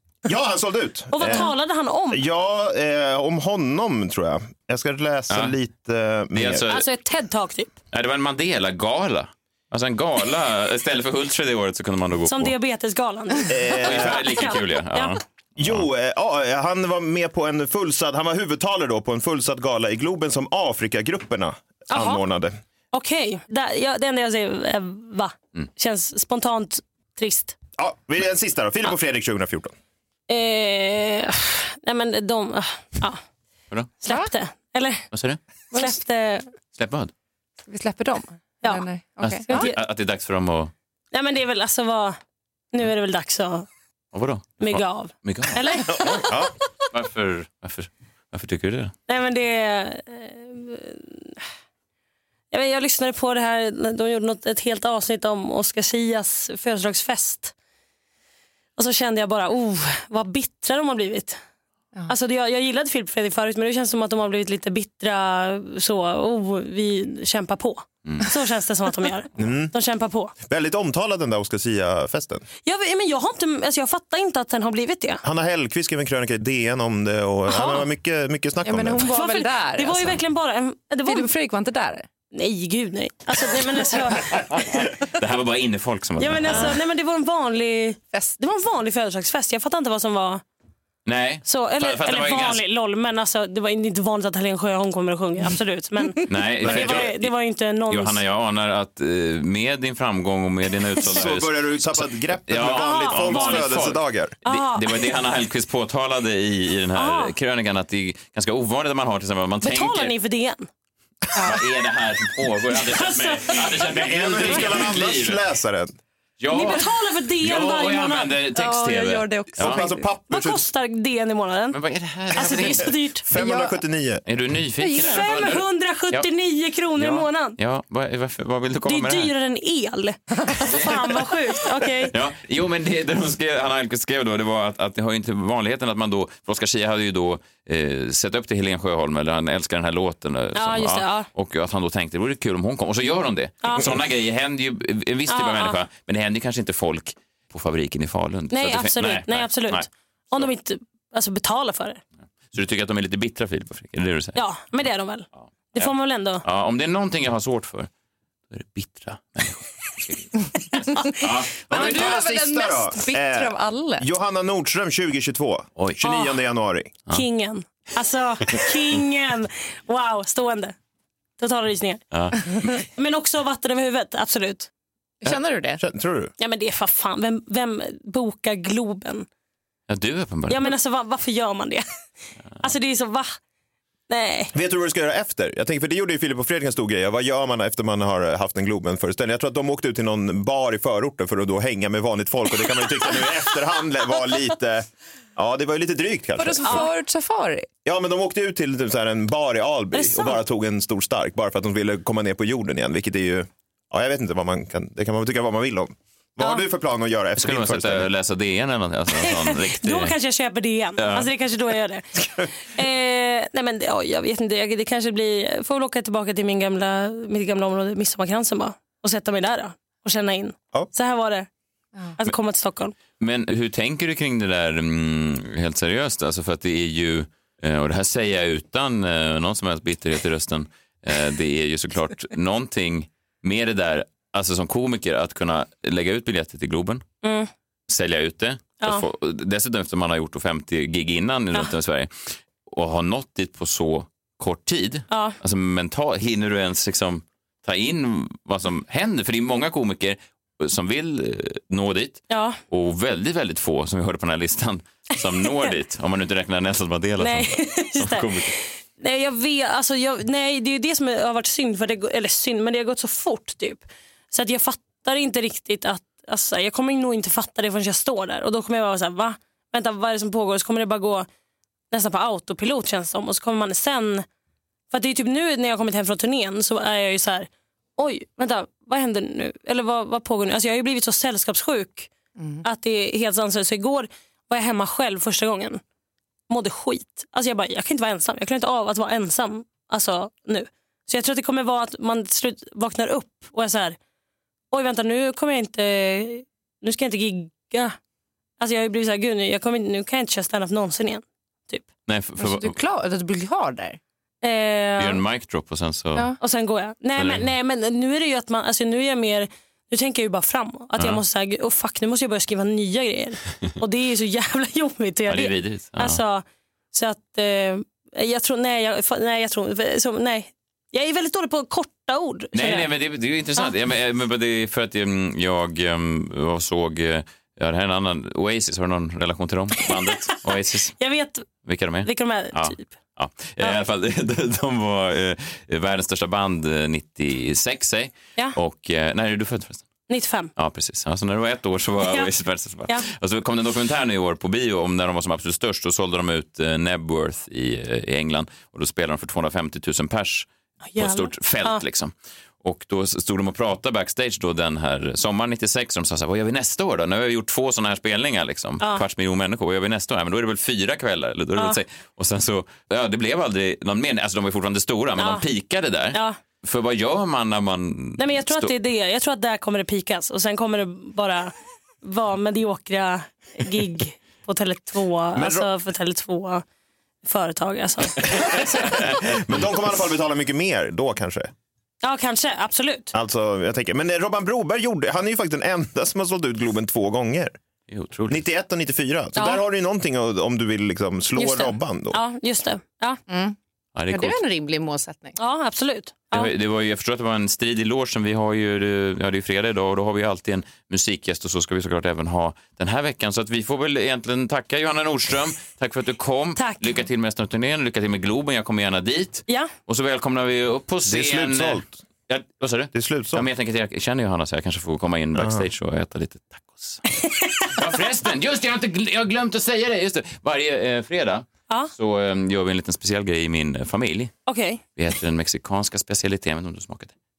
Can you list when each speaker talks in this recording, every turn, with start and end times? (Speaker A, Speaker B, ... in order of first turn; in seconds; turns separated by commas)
Speaker A: 0.2-1.5, Speaker B: 1.1-2.2, Speaker A: 2.1-6.7, Speaker C: 5.3-5.5, Speaker C: 6.3-6.8, Speaker B: 6.7-7.7, Speaker C: 7.9-12.5, Speaker B: 12.2-15.2, Speaker A: 13.5-14.5, Speaker C: 13.8-15.8, Speaker A: 15.6-22.6, Speaker B: 21.9-22.2, Speaker B: 22.9-27.5, Speaker A: 27.8-29.7, Speaker B: 30.3-33.2, Speaker B: 34.0-35.1, Speaker D: 34.0-34.3, Speaker C: 35.1-35.4, Speaker B: 35.7-36.5, Speaker C: 36.7-37.1, Speaker D: 37.7-39.7, Speaker C: 39.2-40.7, Speaker B: 39.5-39.8, Speaker B: 41.1-42.2, Speaker B: 42.7-43.7, Speaker C: 44.1-46.2, Speaker B: 44.6-45.9, Speaker A: 45.9-46.5, Speaker C: 46.9-48.9, Speaker B: 49.1-51.4, Speaker B: 52.5-57.5, Speaker B: 58.8-61.4, Speaker B: 62.1-70.3, Speaker A: 69.4-69.7, Speaker A: 70.4-72.4, Speaker B: 72.6-75.2, Speaker A: 75.2-79.1, Speaker B: 77.5-77.8, Speaker D: 78.6-80.2, Speaker B: 79.1-81.3, Speaker D: 81.0-82.1, Speaker B: 82.3-84.9, Speaker D: 83.8-84.4, Speaker C: 85.0-86.8, Speaker B: 86.2-90.4, Speaker C: 91.0-92.6, Speaker B: 91.4-98.2, Speaker C: 96.3-97.3, Speaker A: 96.6-97.1, Speaker C: 97.9-110.1, Speaker A: 101.0-104.3, Speaker B: 102.7-103.7, Speaker B: 104.5-104.9, Speaker B: 106.9-107.3, Speaker B: 109.6-110.7, Speaker C: 111.4-115.4, Speaker B: 112.7-113.9, Speaker A: 113.9-115.9, Speaker B: 114.5-114.8, Speaker C: 116.4-119.8, Speaker B: 116.5-118.4, Speaker D: 118.5-120.1, Speaker A: 119.6-120.7, Speaker B: 120.3-121.8, Speaker C: 121.7-122.9, Speaker B: 122.3-123.2, Speaker A: 122.4-124.2, Speaker D: 123.3-123.8, Speaker C: 124.2-126.2, Speaker D: 124.8-125.2, Speaker B: 124.9-127.6, Speaker C: 127.0-129.3, Speaker B: 128.8-132.1, Speaker C: 130.7-131.1, Speaker C: 132.1-150.5, Speaker B: 140.5-141.3, Speaker B: 143.6-143.9, Speaker B: 145.3-145.8, Speaker B: 148.5-152.0, Speaker C: 152.5-154.4, Speaker B: 154.3-156.4, Speaker C: 155.4-155.9, Speaker C: 156.4-157.9, Speaker C: 158.5-162.2, Speaker D: 160.9-164.1, Speaker A: 161.7-166.9, Speaker B: 167.1-170.7, Speaker B: 171.4-172.0, Speaker C: 172.1-172.7, Speaker B: 172.9-174.7, Speaker D: 175.2-175.8, Speaker A: 175.2-176.3, Speaker B: 176.4-179.2, Speaker C: 179.9-180.7, Speaker B: 180.5-181.8, Speaker B: 182.6-183.3, Speaker B: 184.1-184.5, Speaker A: 184.5-196.9, Speaker D: 196.4-197.7, Speaker A: 197.8-208.1, Speaker B: 199.9-200.4, Speaker C: 207.4-210.1, Speaker B: 209.2-221.5, Speaker C: 211.0-211.3, Speaker B: 222.2-222.9, Speaker C: 223.2-237.0, Speaker B: 237.2-237.5, Speaker C: 237.9-242.1, Speaker C: 242.6-258.5, Speaker B: 245.1-245.3, Speaker B: 252.3-252.6, Speaker B: 257.2-271.3, Speaker B: 271.9-274.2, Speaker B: 274.9-282.1, Speaker D: 282.4-282.6, Speaker B: 282.6-285.8, Speaker B: 286.5-294.0, Speaker B: 294.7-298.0, Speaker B: 298.6-301.8, Speaker C: 302.1-302.8, Speaker D: 302.4-304.0, Speaker B: 304.4-305.2, Speaker C: 305.0-306.3, Speaker B: 306.4-322.9, Speaker C: 307.2-307.4, Speaker C: 315.3-316.2, Speaker C: 322.5-331.0, Speaker B: 331.0-331.5, Speaker C: 331.6-339.9, Speaker B: 332.0-332.9, Speaker B: 340.1-340.5, Speaker C: 340.6-368.7, Speaker B: 350.8-351.8, Speaker B: 365.2-365.4, Speaker B: 366.1-366.4, Speaker B: 368.2-376.6, Speaker A: 375.3-375.7, Speaker B: 377.2-379.1, Speaker A: 378.5-381.5, Speaker B: 382.0-383.1, Speaker A: 383.1-387.6, Speaker C: 387.9-388.4, Speaker A: 388.3-392.2, Speaker B: 389.4-389.6, Speaker B: 391.4-393.2, Speaker D: 393.3-393.6, Speaker C: 393.9-394.4, Speaker D: 394.1-395.4, Speaker B: 395.4-396.5, Speaker C: 396.3-417.0, Speaker B: 406.6-406.9, Speaker A: 411.1-412.0, Speaker A: 412.9-413.5, Speaker A: 415.4-415.6, Speaker B: 417.2-417.6, Speaker C: 417.7-424.3, Speaker B: 424.5-424.8, Speaker C: 424.9-427.1